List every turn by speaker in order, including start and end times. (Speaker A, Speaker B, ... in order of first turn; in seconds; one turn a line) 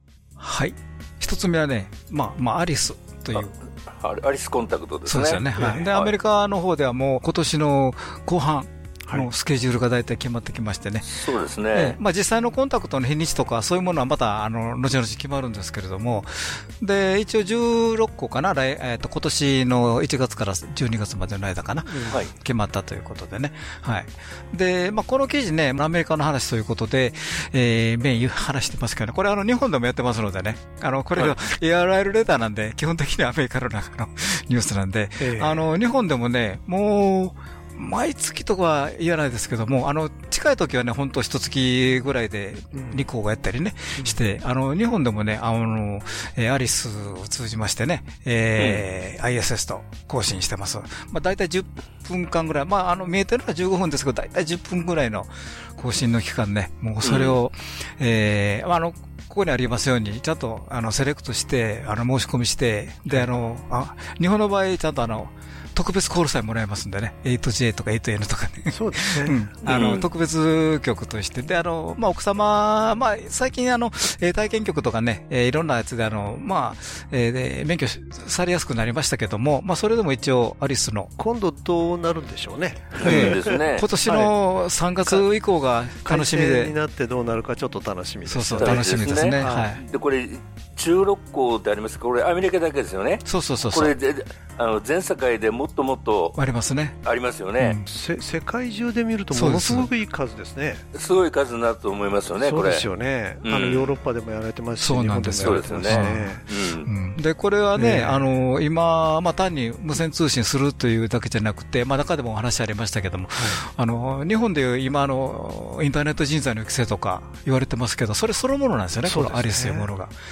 Speaker A: 0.4-3.5
Speaker B: 4.0-6.1
Speaker A: 5.1-11.2
Speaker C: 5.6-5.9
Speaker B: 11.1-12.0
Speaker A: 11.7-81.1
Speaker C: 35.2-35.6
Speaker C: 42.7-43.0
Speaker B: 48.6-48.8
Speaker B: 57.0-57.4
Speaker C: 68.7-70.0
Speaker B: 69.7-70.0
Speaker C: 81.2-84.3
Speaker B: 83.0-83.8
Speaker A: 83.0-86.7
Speaker C: 86.0-89.7
Speaker A: 88.2-89.8
Speaker B: 88.6-96.4
Speaker A: 93.2-93.9
Speaker A: 96.3-97.0
Speaker B: 97.0-97.8
Speaker A: 97.6-97.9
Speaker C: 97.9-100.8
Speaker A: 99.3-99.9
Speaker B: 100.9-102.9
Speaker C: 102.4-106.4
Speaker B: 103.4-104.0
Speaker A: 104.8-120.1
Speaker B: 105.4-106.9
Speaker C: 107.8-108.2
Speaker C: 119.0-119.9